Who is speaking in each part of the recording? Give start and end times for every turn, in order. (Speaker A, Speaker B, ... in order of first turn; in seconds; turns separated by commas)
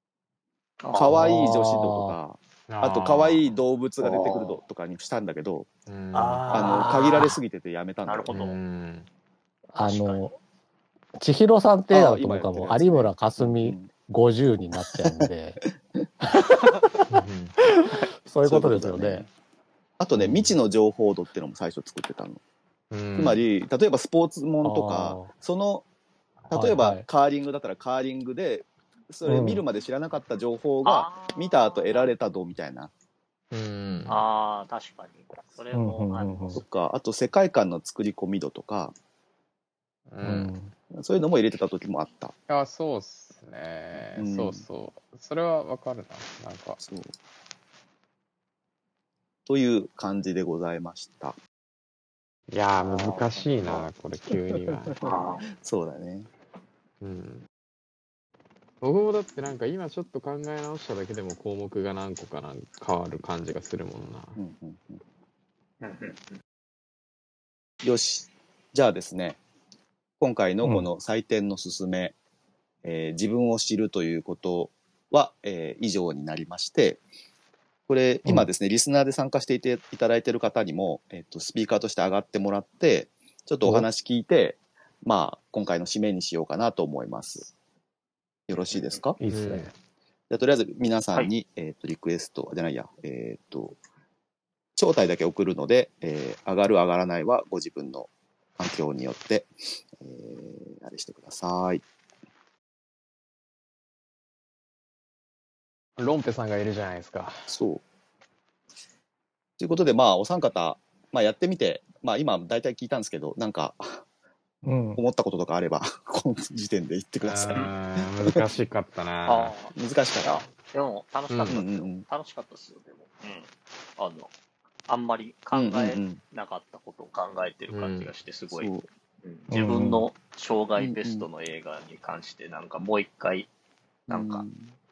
Speaker A: 0.8-1.2, Speaker B: 0.9-5.7, Speaker C: 1.1-2.2, Speaker D: 2.7-3.5, Speaker A: 4.0-4.6, Speaker D: 5.9-6.9, Speaker C: 6.1-7.4, Speaker B: 6.5-8.3, Speaker A: 8.1-8.6, Speaker D: 8.3-9.1, Speaker C: 9.7-10.4, Speaker A: 9.8-10.2, Speaker C: 11.2-15.6, Speaker B: 11.9-13.9, Speaker C: 16.2-17.0, Speaker D: 17.1-17.6, Speaker C: 17.6-19.2, Speaker B: 18.4-19.3, Speaker B: 20.0-22.4, Speaker D: 20.2-20.6, Speaker D: 22.9-23.4, Speaker B: 23.2-25.9, Speaker C: 24.6-25.3, Speaker B: 26.5-32.9, Speaker C: 26.5-27.1, Speaker C: 29.2-29.6, Speaker A: 30.8-32.1, Speaker D: 33.5-34.2, Speaker A: 34.1-36.6, Speaker C: 35.7-36.6, Speaker B: 36.5-39.0, Speaker D: 40.1-40.5, Speaker C: 40.2-40.7, Speaker B: 40.9-42.3, Speaker D: 42.5-46.8, Speaker B: 44.2-44.6, Speaker B: 46.8-47.1, Speaker B: 49.5-51.4, Speaker D: 52.5-55.0, Speaker A: 52.8-53.8, Speaker B: 54.7-56.3, Speaker A: 55.0-55.4, Speaker D: 57.0-57.5, Speaker D: 58.8-64.4, Speaker B: 64.4-65.0, Speaker A: 65.8-66.4, Speaker B: 67.8-69.4, Speaker B: 70.2-72.2, Speaker C: 70.6-70.9, Speaker B: 72.8-77.0, Speaker B: 77.9-87.5, Speaker C: 83.6-83.9, Speaker B: 88.5-89.2, Speaker A: 88.7-89.0, Speaker C: 89.2-89.7, Speaker D: 89.3-89.7, Speaker B: 90.3-93.8, Speaker B: 94.8-101.8, Speaker D: 106.0-107.5, Speaker B: 107.5-107.8, Speaker B: 109.6-114.0, Speaker C: 114.6-115.0, Speaker B: 115.0-118.4, Speaker D: 117.2-119.5, Speaker A: 119.3-124.3, Speaker B: 119.8-120.4, Speaker D: 121.3-121.6, Speaker B: 121.5-122.1, Speaker A: 124.9-128.7, Speaker B: 125.5-126.2, Speaker D: 127.7-128.1, Speaker B: 128.5-128.9, Speaker A: 129.2-133.5, Speaker C: 129.5-130.1, Speaker B: 130.8-131.3, Speaker B: 134.1-134.7, Speaker A: 134.1-134.5